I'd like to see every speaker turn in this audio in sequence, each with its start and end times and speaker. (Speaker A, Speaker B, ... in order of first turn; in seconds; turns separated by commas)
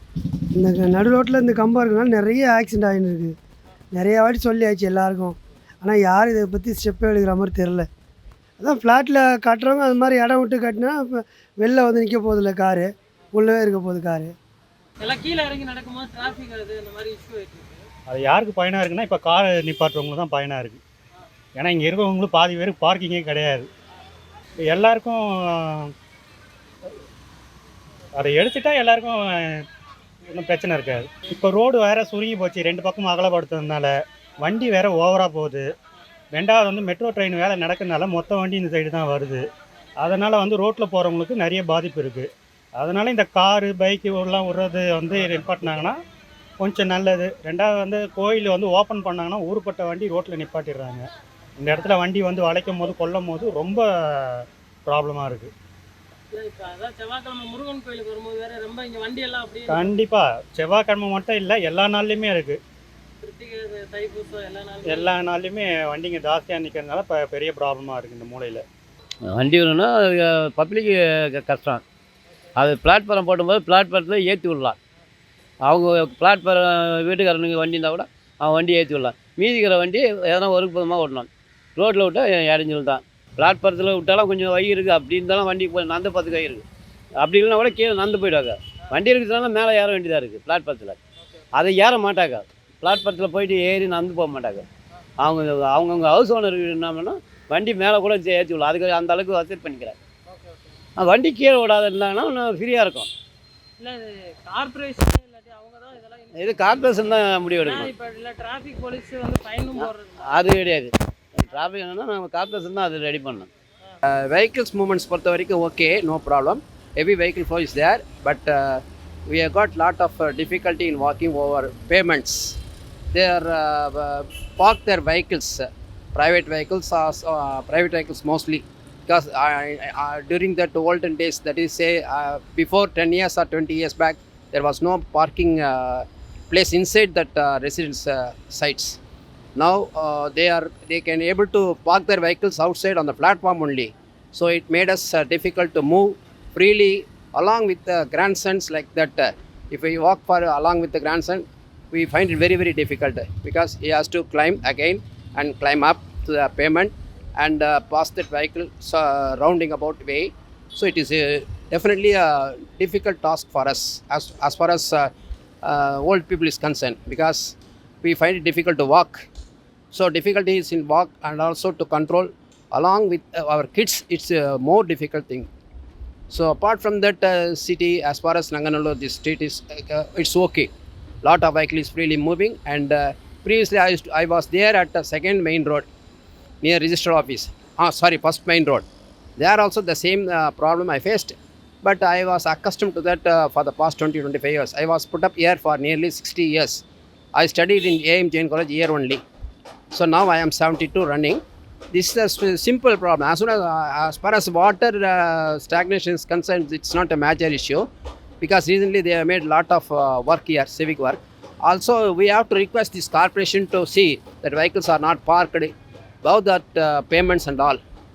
Speaker A: 0.6-3.3, Speaker A: 3.9-7.9, Speaker A: 8.6-14.3, Speaker B: 15.0-17.8, Speaker C: 18.1-20.8, Speaker C: 21.6-23.7, Speaker C: 24.7-25.9, Speaker C: 28.2-29.6, Speaker C: 30.3-35.6, Speaker C: 36.3-39.4, Speaker C: 40.0-46.0, Speaker C: 46.6-51.0, Speaker C: 51.6-55.5, Speaker B: 56.3-59.9, Speaker C: 59.7-62.6, Speaker B: 63.2-65.0, Speaker C: 64.8-68.6, Speaker D: 69.3-71.8, Speaker D: 72.6-74.8, Speaker D: 75.6-86.6, Speaker D: 87.2-91.0, Speaker D: 91.5-94.6, Speaker D: 95.2-100.0, Speaker D: 101.0-103.1, Speaker B: 104.5-106.1, Speaker D: 106.3-107.9, Speaker B: 107.6-109.8, Speaker D: 109.7-113.5, Speaker E: 114.1-122.6, Speaker E: 123.1-139.0, Speaker E: 139.6-165.1, Speaker E: 165.6-169.2, Speaker E: 169.9-175.5, Speaker E: 176.3-180.7, Speaker E: 181.2-185.8, Speaker E: 186.6-188.8, Speaker E: 189.4-196.8, Speaker E: 197.3-199.2, Speaker E: 199.9-201.4, Speaker E: 201.9-207.8, Speaker E: 208.4-217.8